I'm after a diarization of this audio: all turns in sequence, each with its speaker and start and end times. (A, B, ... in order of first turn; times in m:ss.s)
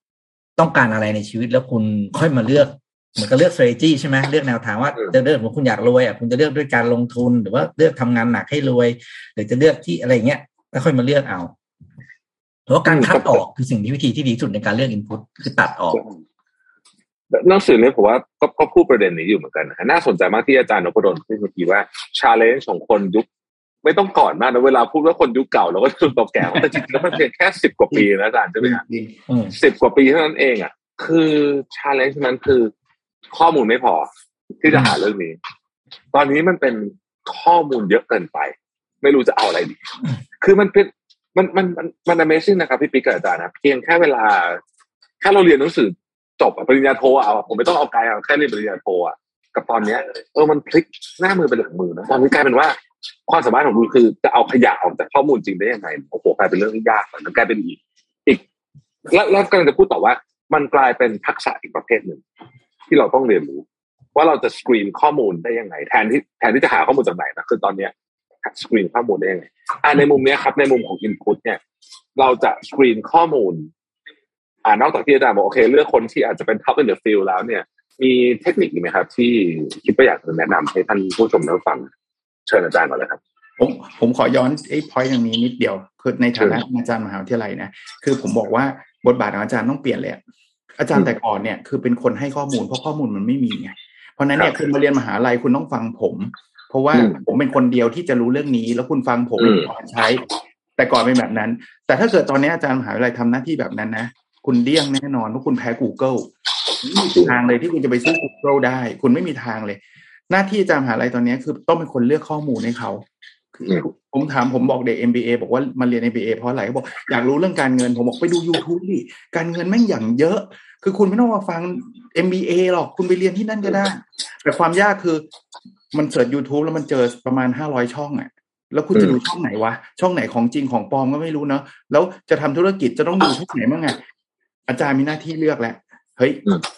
0:00.6-0:11.5 A
0:12.7-0:16.0 A
0:12.9-0:13.4 B
0:17.3-0:23.3 B
0:23.8-0:28.8 B
0:28.6-0:29.2 C
0:29.3-0:29.5 A
0:29.6-0:32.7 B
0:33.3-0:34.1 B
0:34.6-0:35.4 B
0:36.1-0:39.8 B
0:40.4-0:44.6 B
0:45.2-0:58.4 B
0:59.1-1:02.2 B
1:02.9-1:03.6 B
1:04.1-1:07.9 B
1:08.4-1:11.6 B
1:12.2-1:13.7 B
1:14.6-1:21.9 B
1:22.5-1:23.2 B
1:23.6-1:30.2 C
1:30.8-1:40.2 C
1:36.9-1:37.2 B
1:39.4-1:39.7 B
1:40.8-1:46.3 C
1:46.8-1:53.0 C
1:46.9-1:47.4 B
1:53.6-2:05.2 C
2:05.9-2:14.0 C
2:14.7-2:16.4 C